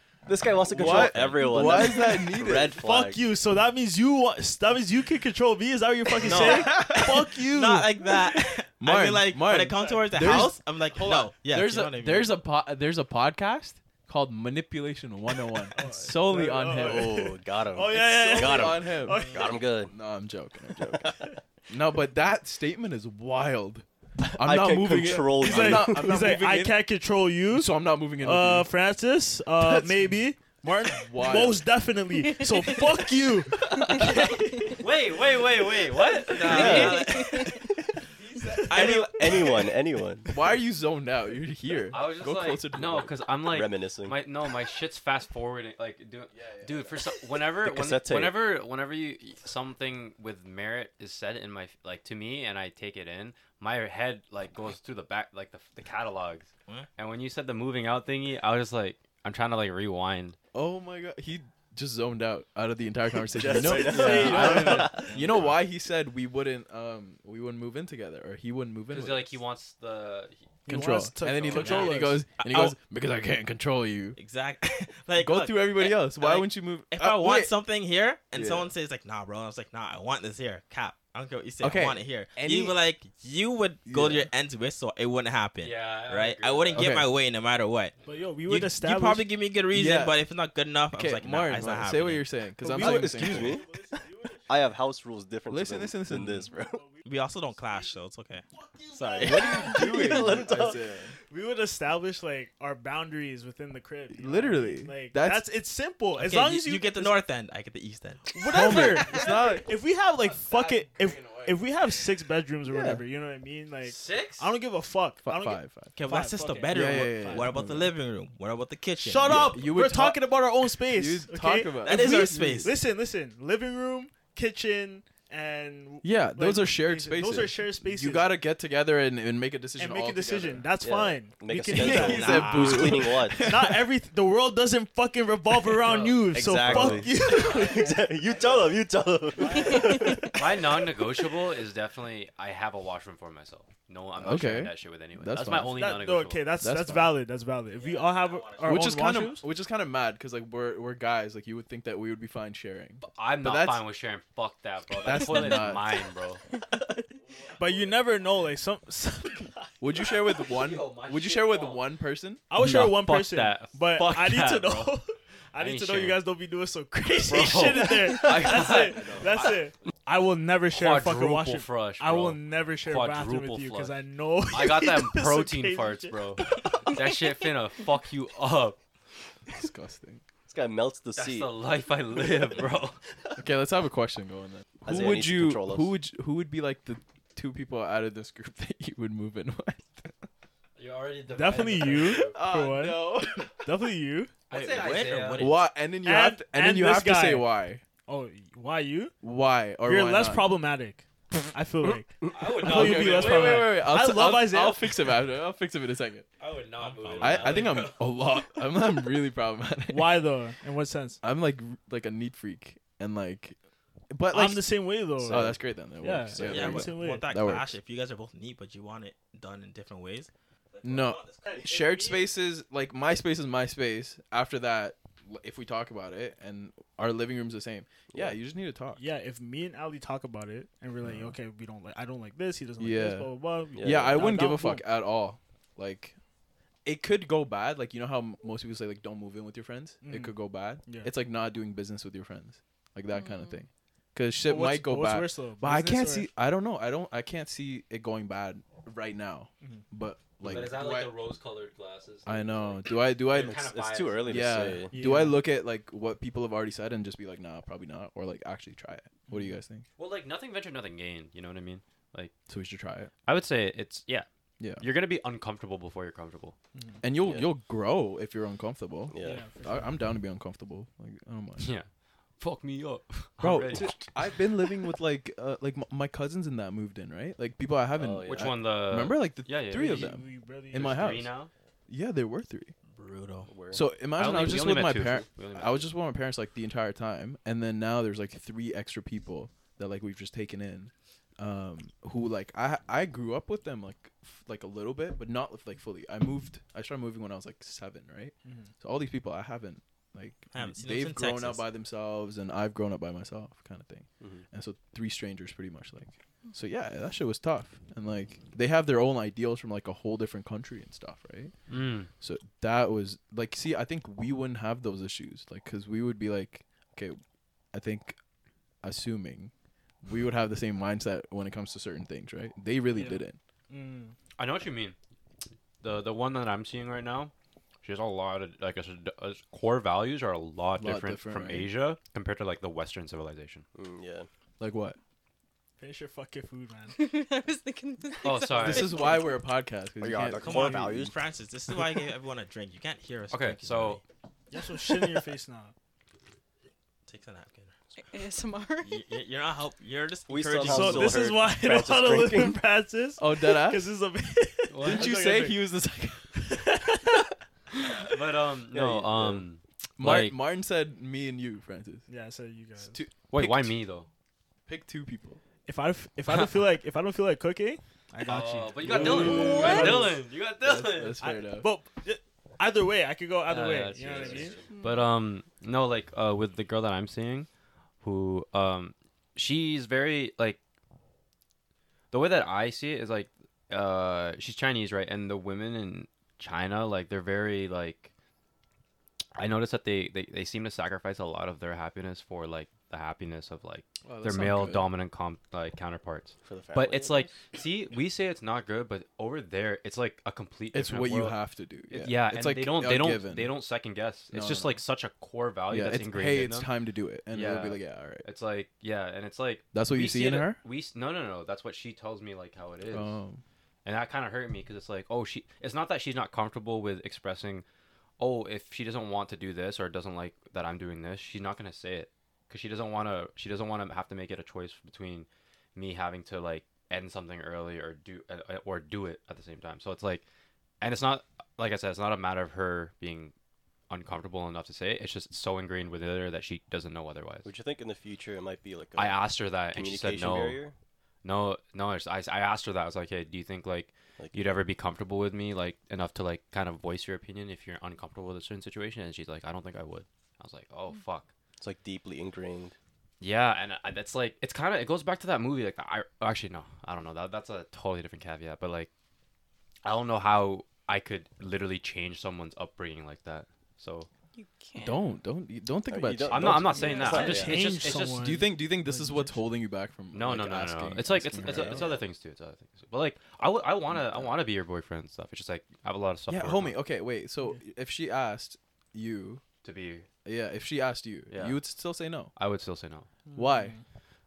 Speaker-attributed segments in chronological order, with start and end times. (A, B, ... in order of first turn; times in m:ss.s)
0:00.2-0:03.2 A
0:00.7-0:02.8 B
0:00.7-0:01.8 C
0:02.6-0:07.9 D
0:06.2-0:07.4 B
0:06.2-0:12.4 C
0:08.7-0:17.3 B
0:09.6-0:10.5 D
0:15.7-0:19.8 D
0:16.7-0:20.0 A
0:17.9-0:21.1 B
0:19.1-0:19.4 C
0:20.7-0:21.4 A
0:21.7-0:26.8 B
0:24.2-0:26.3 A
0:25.4-0:34.2 D
0:27.5-0:28.7 B
0:29.6-0:30.2 B
0:30.8-0:31.6 B
0:32.3-0:32.8 E
0:33.7-0:34.2 B
0:33.8-0:37.4 F
0:36.3-0:37.5 C
0:36.5-0:37.2 A
0:36.6-0:36.9 B
0:36.7-0:37.7 E
0:38.2-0:39.7 B
0:38.7-0:39.1 C
0:38.7-0:40.3 A
0:40.3-0:43.2 B
0:41.9-1:00.4 F
0:43.4-0:44.2 A
0:46.3-0:47.0 B
0:47.6-0:48.4 A
1:00.5-1:09.4 B
1:03.3-1:05.1 A
1:03.5-1:05.0 D
1:04.0-1:04.9 F
1:04.3-1:05.5 C
1:08.9-1:10.6 F
1:10.6-1:12.2 D
1:10.7-1:14.2 B
1:11.5-1:12.8 C
1:14.2-1:27.9 C
1:15.1-1:17.5 B
1:18.3-1:18.7 B
1:21.6-1:22.8 B
1:23.8-1:24.3 B
1:25.6-1:26.9 F
1:26.7-1:27.1 B
1:28.0-1:29.3 D
1:28.4-1:32.3 C
1:29.7-1:30.2 B
1:30.9-1:33.6 B
1:32.6-1:34.8 D
1:32.7-1:33.8 A
1:34.5-1:36.8 A
1:35.5-1:36.5 B
1:36.5-1:38.0 D
1:37.0-1:39.7 C
1:38.5-1:40.4 D
1:39.2-1:41.1 B
1:39.4-1:40.8 A
1:41.3-1:47.2 D
1:44.1-1:45.4 B
1:46.2-1:48.7 C
1:48.3-1:57.6 D
1:48.4-1:49.8 B
1:50.3-1:51.6 B
1:52.7-1:53.0 B
1:53.8-1:54.5 F
1:55.2-1:55.9 B
1:56.0-1:59.6 C
1:56.7-1:57.9 B
1:59.0-2:08.3 D
1:59.3-2:02.8 B
2:01.8-2:02.7 C
2:06.0-2:10.7 B
2:09.8-2:12.7 D
2:10.8-2:13.5 A
2:11.7-2:13.8 B
2:11.8-2:13.0 C
2:13.3-2:18.4 D
2:16.2-2:20.8 A
2:16.7-2:17.1 B
2:19.4-2:19.7 D
2:19.7-2:20.3 E
2:20.3-2:26.4 F
2:24.2-2:25.9 B
2:25.7-2:29.4 D
2:26.6-2:27.2 B
2:27.8-2:28.8 C
2:28.6-2:33.9 B
2:33.0-2:36.4 F
2:35.0-2:35.9 B
2:37.5-2:39.7 D
2:39.8-2:42.8 B
2:40.4-2:41.9 F
2:42.5-2:57.0 D
2:42.5-2:45.0 F
2:45.6-2:46.2 F
2:47.2-2:49.6 F
2:49.0-2:49.3 A
2:50.7-2:54.0 F
2:54.5-2:58.8 F
2:59.5-3:00.2 B
3:00.5-3:01.6 A
3:01.1-3:03.0 F
3:02.1-3:02.7 A
3:03.4-3:10.3 B
3:04.8-3:05.9 A
3:10.8-3:12.4 F
3:11.3-3:14.3 D
3:12.0-3:13.7 B
3:14.5-3:15.6 F
3:14.5-3:15.6 C
3:15.4-3:17.8 B
3:16.0-3:17.5 D
3:18.1-3:19.1 D
3:19.2-3:20.4 B
3:19.8-3:25.2 D
3:22.3-3:23.9 F
3:22.6-3:26.3 B
3:26.4-3:28.1 F
3:26.8-3:27.8 C
3:27.2-3:30.2 B
3:29.9-3:31.2 D
3:31.2-3:33.6 B
3:34.1-3:37.7 B
3:34.3-3:37.3 D
3:36.4-3:41.5 C
3:40.8-3:49.0 B
3:41.4-3:42.3 D
3:48.1-3:48.4 A
3:48.9-3:54.9 D
3:51.0-3:51.4 B
3:52.8-3:56.2 B
3:53.7-3:54.2 A
3:56.8-4:11.1 B
4:00.0-4:01.1 D
4:03.1-4:03.6 E
4:04.4-4:06.3 D
4:10.4-4:14.8 F
4:12.2-4:13.6 B
4:13.3-4:15.0 A
4:14.2-4:19.8 B
4:14.9-4:15.4 D
4:20.0-4:22.3 F
4:22.5-4:23.1 B
4:23.2-4:26.6 F
4:24.6-4:24.9 B
4:26.7-4:27.0 D
4:27.0-4:31.7 B
4:27.2-4:27.5 A
4:29.1-4:29.5 A
4:29.2-4:30.0 D
4:31.6-4:31.9 F
4:32.4-4:34.7 F
4:33.4-4:41.3 B
4:37.9-4:38.6 A
4:38.2-4:40.2 F
4:39.7-4:41.3 D
4:40.7-4:41.5 F
4:41.9-4:42.7 B
4:42.9-4:43.5 C
4:43.5-4:43.8 A
4:43.7-5:11.5 B
4:44.2-4:45.9 F
4:58.4-4:58.7 D
5:00.5-5:01.7 C
5:04.2-5:04.4 A
5:11.7-5:12.1 F
5:12.2-5:17.2 B
5:17.7-5:18.2 B
5:18.8-5:19.5 B
5:20.0-5:23.4 B
5:22.9-5:24.2 D
5:24.4-5:25.0 F
5:25.8-5:27.3 F
5:27.8-5:33.6 F
5:30.8-5:31.7 B
5:33.7-5:34.3 A
5:34.6-5:35.0 B
5:35.8-5:37.0 D
5:36.9-5:39.4 E
5:38.2-5:39.1 F
5:38.6-5:41.1 B
5:40.0-5:41.1 A
5:40.4-5:44.0 C
5:43.3-5:44.0 F
5:44.5-5:45.7 D
5:47.0-5:47.7 C
5:48.0-5:49.0 E
5:48.8-5:51.2 C
5:50.3-5:52.6 A
5:50.6-5:55.7 D
5:53.2-5:53.9 B
5:54.7-5:55.2 F
5:54.8-5:56.6 B
5:56.4-5:57.2 D
5:58.0-6:00.4 F
5:58.7-5:59.4 A
6:00.0-6:02.1 B
6:02.1-6:03.0 D
6:02.9-6:03.8 B
6:03.3-6:04.1 F
6:04.7-6:05.4 B
6:05.6-6:10.1 D
6:06.3-6:06.6 F
6:08.2-6:11.2 F
6:08.8-6:11.7 B
6:09.3-6:10.0 E
6:11.2-6:14.6 D
6:13.5-6:17.5 F
6:14.2-6:14.6 A
6:14.6-6:15.1 E
6:18.0-6:20.6 F
6:22.1-6:28.1 F
6:29.4-6:41.4 F
6:34.0-6:34.9 B
6:36.4-6:37.4 A
6:40.7-6:43.5 B
6:41.9-6:46.7 F
6:44.3-6:44.8 B
6:45.7-6:48.2 B
6:47.3-6:53.1 F
6:49.7-6:50.6 B
6:52.9-6:53.4 B
6:53.8-6:57.6 F
6:58.2-7:10.2 F
7:10.8-7:13.3 F
7:13.9-7:17.5 F
7:17.4-7:20.7 A
7:19.0-7:20.6 F
7:21.2-7:31.3 F
7:24.2-7:24.4 A
7:31.6-7:32.8 A
7:33.2-7:38.9 F
7:39.8-7:44.1 F
7:44.4-7:45.0 E
7:44.7-7:47.0 B
7:45.9-7:47.7 A
7:46.3-7:48.4 F
7:46.7-7:47.5 E
7:47.1-7:49.5 D
7:48.1-7:52.0 B
7:50.1-7:56.7 F
7:51.3-7:52.0 A
7:56.3-7:59.4 B
7:59.6-8:00.1 F
8:00.2-8:02.3 B
8:01.3-8:01.6 F
8:02.4-8:03.1 F
8:03.2-8:03.8 D
8:03.3-8:03.8 B